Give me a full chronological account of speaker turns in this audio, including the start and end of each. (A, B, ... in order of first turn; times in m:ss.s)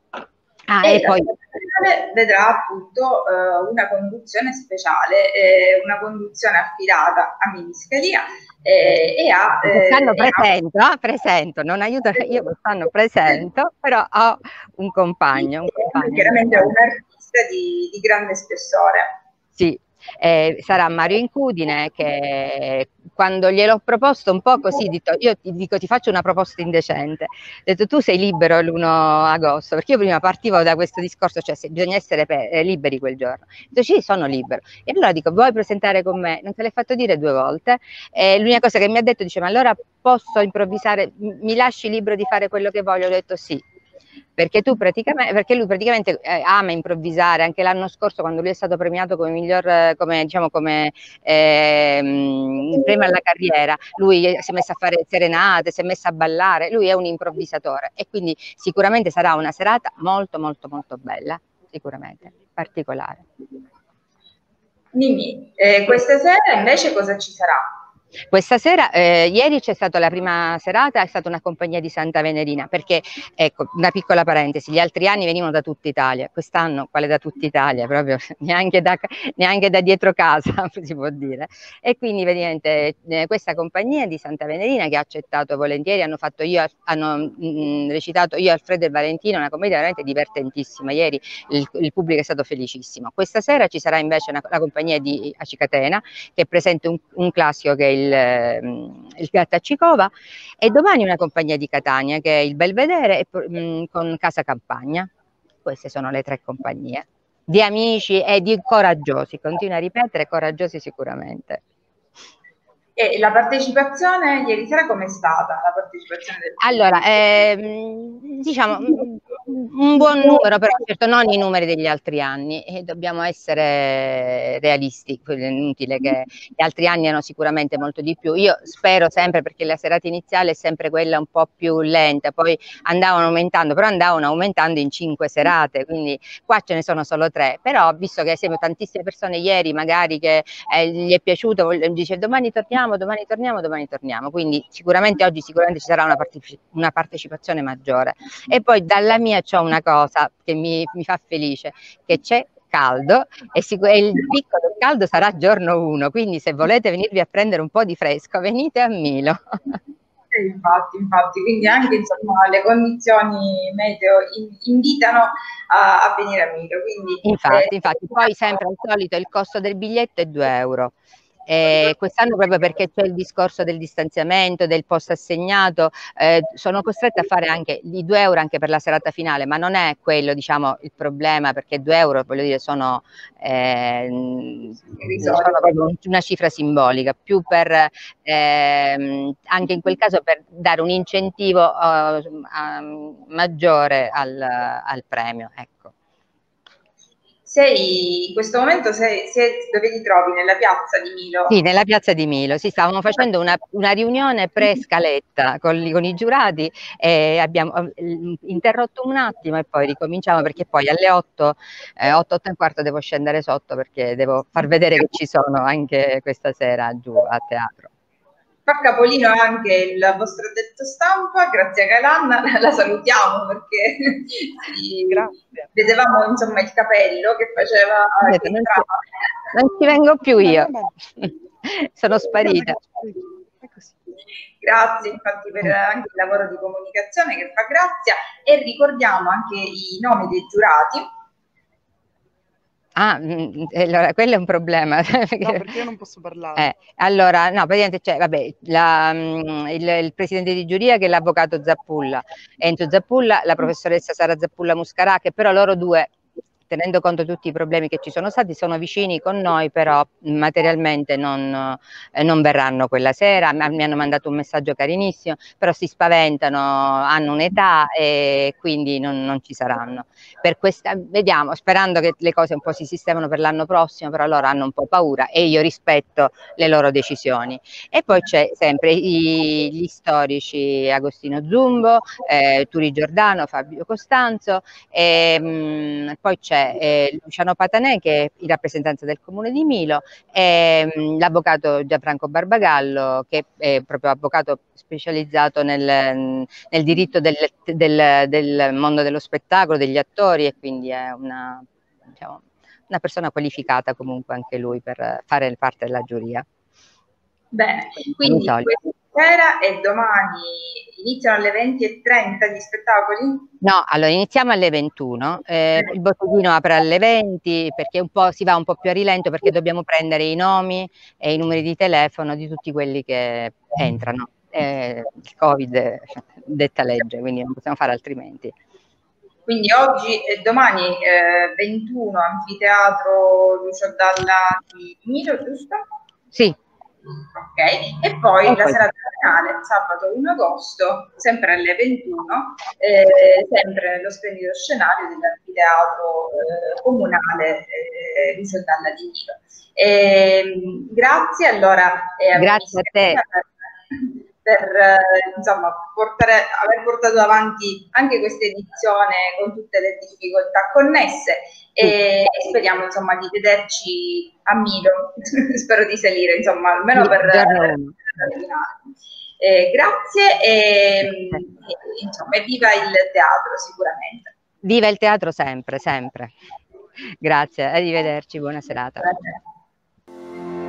0:00.7-0:01.3 A
0:00.8-0:10.5 B
0:09.7-0:16.7 A
0:15.7-0:19.1 B
0:19.6-0:43.6 A
0:44.4-1:03.3 A
1:04.9-1:07.6 B
1:08.3-1:40.1 A
1:40.6-1:45.1 A
1:45.6-1:51.6 A
1:53.0-1:57.1 B
1:56.6-2:39.8 A
2:40.3-2:48.3 B
2:47.2-2:51.0 A
2:51.5-3:15.9 A
3:05.0-3:05.7 B
3:17.5-3:21.6 B
3:21.5-3:37.9 A
3:38.7-3:49.0 B
3:48.2-3:48.9 A
3:49.5-3:52.8 A
3:50.4-3:51.0 C
3:52.4-3:53.9 C
3:54.6-4:01.1 B
4:03.0-4:05.8 A
4:05.4-4:06.7 C
4:06.6-4:16.1 A
4:16.7-5:06.4 A
5:07.5-5:13.5 B
5:08.2-5:08.7 A
5:13.6-5:28.5 A
5:29.5-5:35.8 B
5:37.3-6:08.8 B
5:38.5-5:38.8 A
5:52.4-5:53.2 A
6:07.0-6:08.0 A
6:09.4-6:14.3 B
6:14.6-6:16.3 A
6:17.2-6:19.1 A
6:19.0-6:19.4 B